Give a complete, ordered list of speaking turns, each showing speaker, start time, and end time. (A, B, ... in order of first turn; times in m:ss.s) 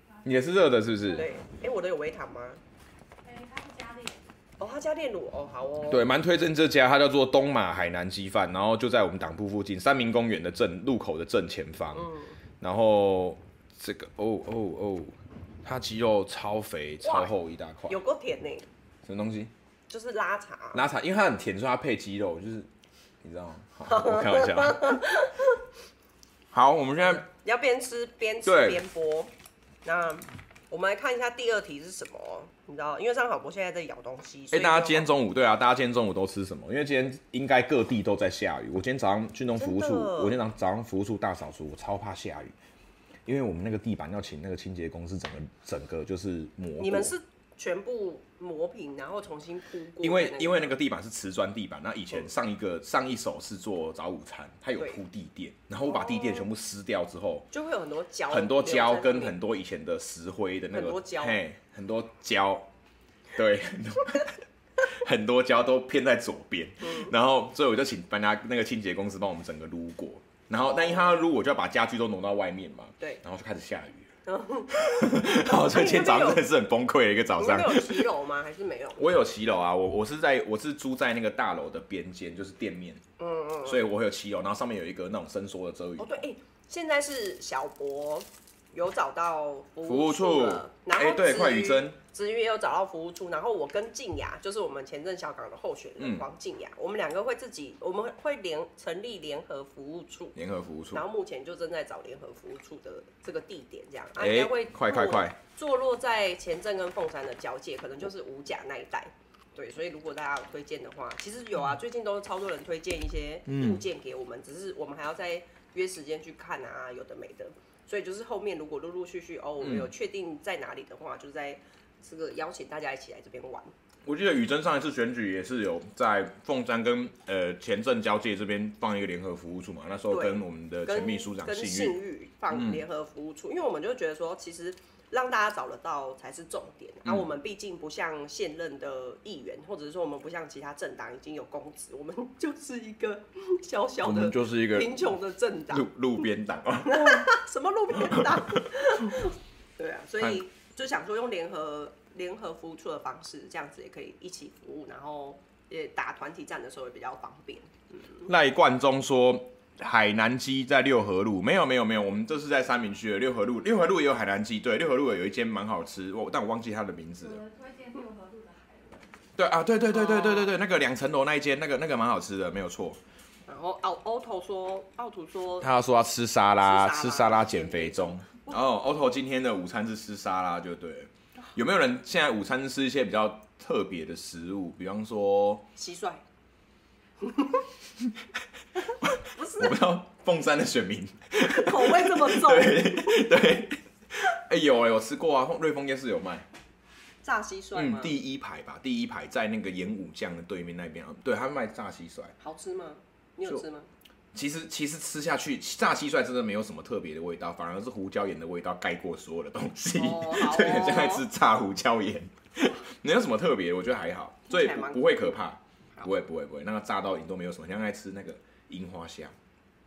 0:00.2-0:01.3 A
0:01.2-0:02.6 B
0:03.2-0:04.2 C
0:04.6-0:06.1 B
0:05.9-0:12.1 A
0:11.9-0:12.4 B
0:12.6-0:18.0 A
0:17.0-0:17.3 B
0:17.9-0:18.7 B
0:19.0-0:19.5 A
0:19.9-0:20.8 B
0:20.7-0:22.7 A
0:23.2-0:25.0 A
0:23.9-0:25.6 B
0:26.5-0:27.3 A
0:27.0-0:29.3 B
0:28.4-0:28.8 A
0:29.8-0:35.1 B
0:34.5-0:42.6 A
0:39.6-0:40.4 B
0:43.3-0:47.1 A
0:46.8-0:50.7 B
0:50.0-0:57.5 A
0:55.8-0:56.5 B
0:57.5-0:59.4 B
0:58.3-1:02.7 A
1:00.7-1:01.4 B
1:03.4-1:14.1 A
1:06.8-1:07.1 B
1:10.6-1:11.2 B
1:14.3-1:16.4 B
1:14.7-1:18.1 A
1:17.4-1:19.1 B
1:19.0-1:23.0 A
1:23.2-1:23.8 B
1:23.6-1:26.2 A
1:26.0-1:40.4 B
1:29.8-1:32.0 A
1:36.0-1:36.3 A
1:40.4-1:41.0 A
1:40.9-2:03.7 B
1:44.2-1:45.4 A
1:53.5-1:53.8 A
1:59.6-1:59.9 A
2:04.0-2:12.0 A
2:10.1-2:25.9 B
2:12.5-2:12.8 A
2:24.0-2:25.1 A
2:25.7-2:27.3 A
2:26.8-2:38.3 B
2:28.0-2:28.6 A
2:38.2-2:47.4 A
2:47.2-2:49.1 C
2:49.4-2:53.0 A
2:49.9-2:50.5 B
2:53.5-2:55.7 B
2:55.6-3:05.7 A
2:56.6-2:58.6 B
3:05.8-3:06.2 B
3:07.2-3:07.6 B
3:08.9-3:09.8 B
3:09.0-3:16.5 A
3:11.4-3:13.2 B
3:17.2-3:18.2 B
3:17.8-3:22.4 A
3:22.4-3:23.9 B
3:24.3-3:39.4 A
3:30.0-3:31.3 B
3:34.5-3:35.3 B